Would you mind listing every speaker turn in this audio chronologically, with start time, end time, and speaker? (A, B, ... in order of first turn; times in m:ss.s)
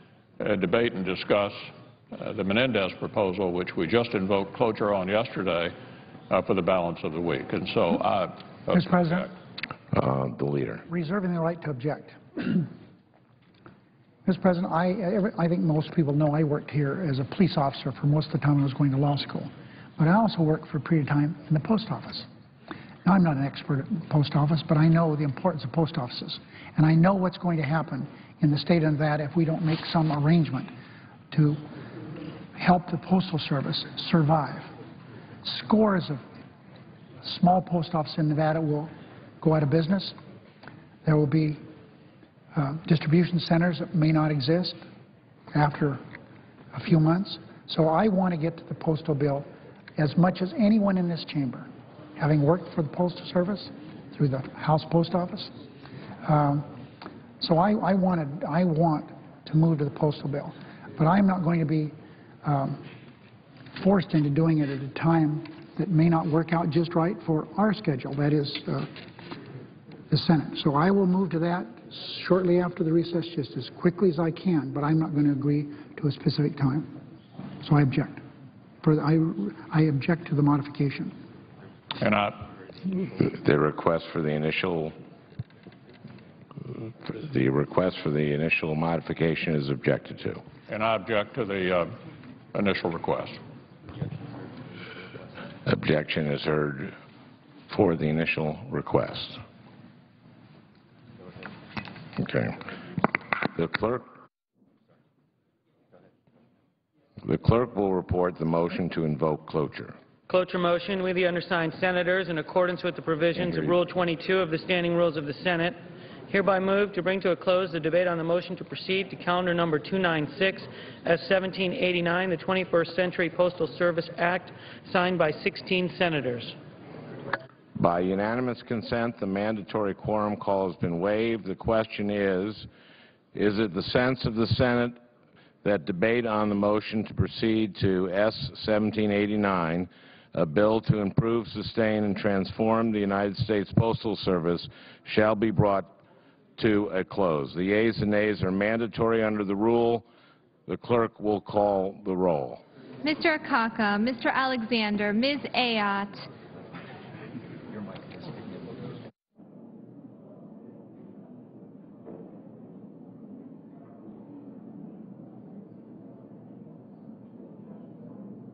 0:00.4-0:05.7 A
0:06.3-0:09.3 A
0:08.7-0:09.3 B
0:09.9-0:10.8 C
0:10.9-0:12.7 B
0:14.2-0:22.3 B
0:23.0-0:30.7 B
0:31.3-0:31.6 B
0:32.5-0:34.7 B
0:35.4-0:36.2 B
0:37.2-0:40.2 B
0:41.0-0:41.6 B
0:42.5-0:44.8 B
0:45.5-0:46.0 B
0:46.7-0:55.5 B
0:56.2-0:56.7 B
0:57.4-1:02.8 B
1:03.7-1:08.9 B
1:10.1-1:17.0 B
1:17.6-1:18.2 B
1:18.8-1:21.1 B
1:22.0-1:22.5 A
1:23.2-1:24.9 C
1:27.0-1:30.4 C
1:30.7-1:31.9 A
1:32.5-1:33.4 A
1:35.6-1:36.9 C
1:37.7-1:39.4 C
1:42.2-1:42.6 C
1:43.4-1:44.1 C
1:47.2-1:50.0 C
1:50.3-1:55.8 D
1:56.3-2:06.6 D
2:07.8-2:12.7 C
2:13.3-2:15.0 C
2:15.6-2:25.9 C
2:26.6-2:30.0 C
2:30.7-2:32.6 C
2:33.0-2:36.2 E